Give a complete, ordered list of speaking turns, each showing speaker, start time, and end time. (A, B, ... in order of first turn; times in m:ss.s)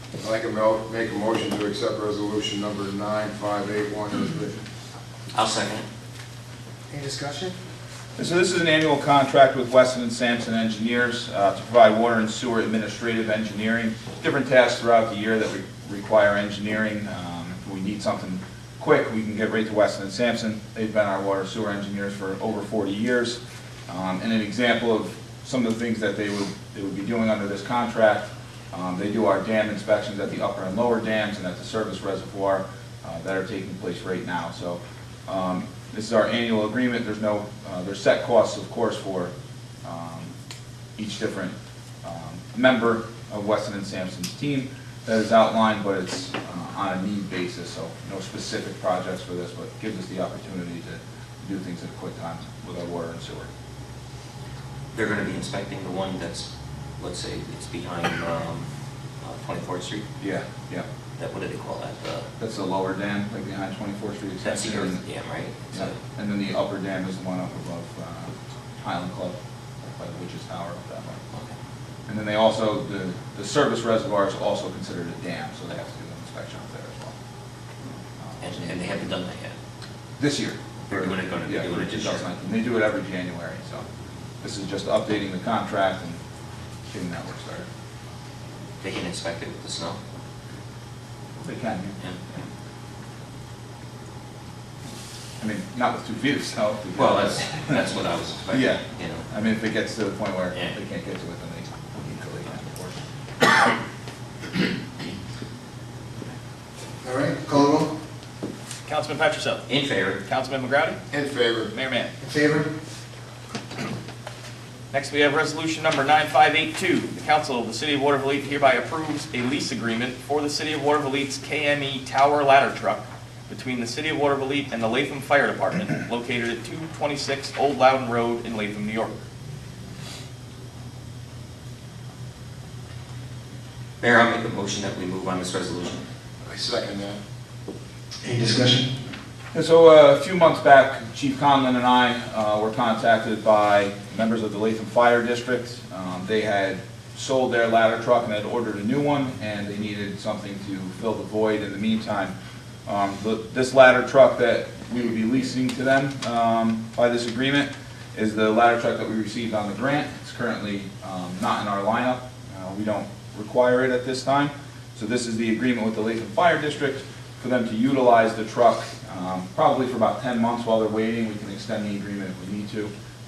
0:00.2-0:04.6 A
0:05.3-0:05.9 B
0:06.9-0:07.6 C
0:08.2-0:39.3 D
0:39.8-0:40.3 D
0:41.0-0:53.5 D
0:54.9-0:58.7 B
0:59.2-1:00.0 B
1:00.2-1:00.9 D
1:01.2-1:02.3 B
1:02.4-1:05.0 D
1:04.4-1:06.0 B
1:05.7-1:09.4 D
1:09.9-1:11.2 D
1:12.1-1:17.2 D
1:18.2-1:19.1 D
1:18.4-1:19.6 B
1:20.2-1:23.8 D
1:20.9-1:22.2 B
1:24.4-1:26.2 D
1:26.9-1:27.7 D
1:28.8-1:30.0 B
1:31.4-1:32.0 D
1:35.4-1:37.9 D
1:37.0-1:39.3 B
1:38.5-1:43.0 D
1:40.5-1:40.8 B
1:47.0-1:48.0 C
1:48.9-1:49.7 E
1:49.7-1:50.2 B
1:50.2-1:51.0 E
1:51.1-1:51.7 A
1:51.7-1:52.1 E
1:52.2-1:52.7 C
1:54.9-2:09.2 E
2:14.0-2:16.0 B
2:16.5-2:17.2 A
2:18.2-2:18.9 C
2:19.5-2:32.3 D
2:32.9-2:52.9 D